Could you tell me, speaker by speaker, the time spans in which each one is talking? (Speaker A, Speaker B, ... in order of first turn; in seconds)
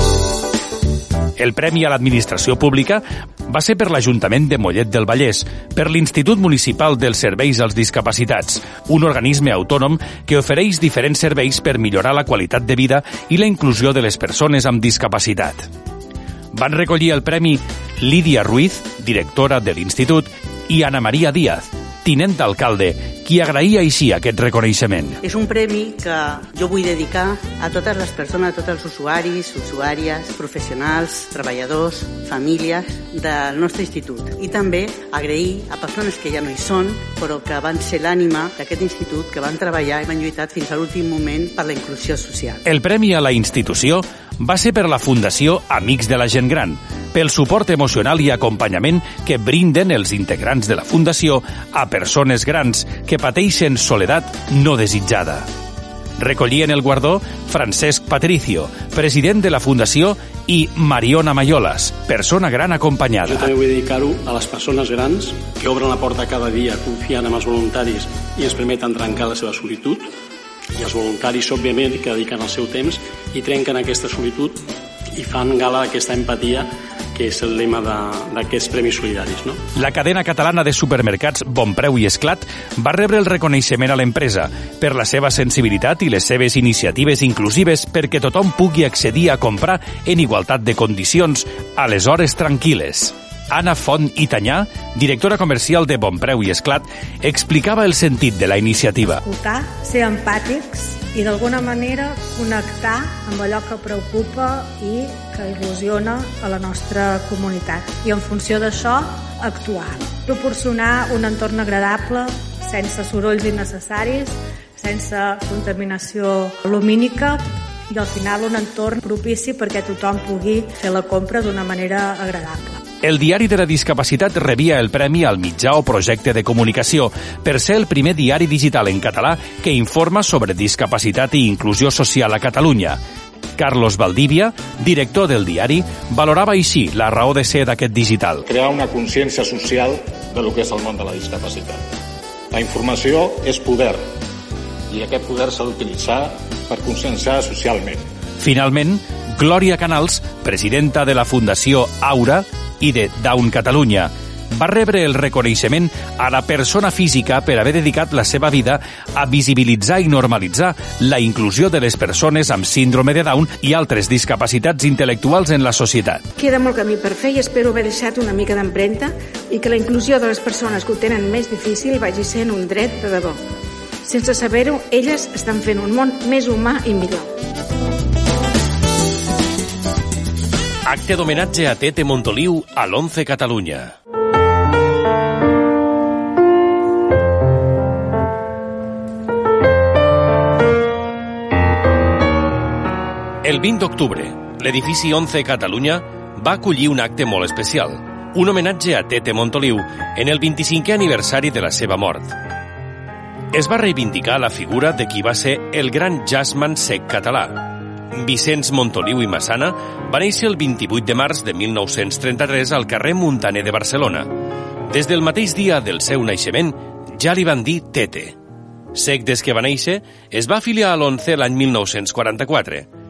Speaker A: 1.4-15.7, 16.5-25.2, 42.6-55.5, 56.2-63.5, 79.7-99.2, 123.0-133.0, 133.6-138.4, 148.4-166.2, 180.8-183.9, 193.4-202.3, 203.5-214.3, 214.9-218.3, 218.9-222.8
Speaker B: 25.2-42.6
Speaker C: 63.3-69.9, 70.8-74.5, 75.2-76.6, 77.2-79.5
Speaker D: 99.2-122.8
Speaker E: 138.5-141.8, 142.5-144.0, 144.9-148.0
Speaker F: 166.4-173.4, 174.0-177.3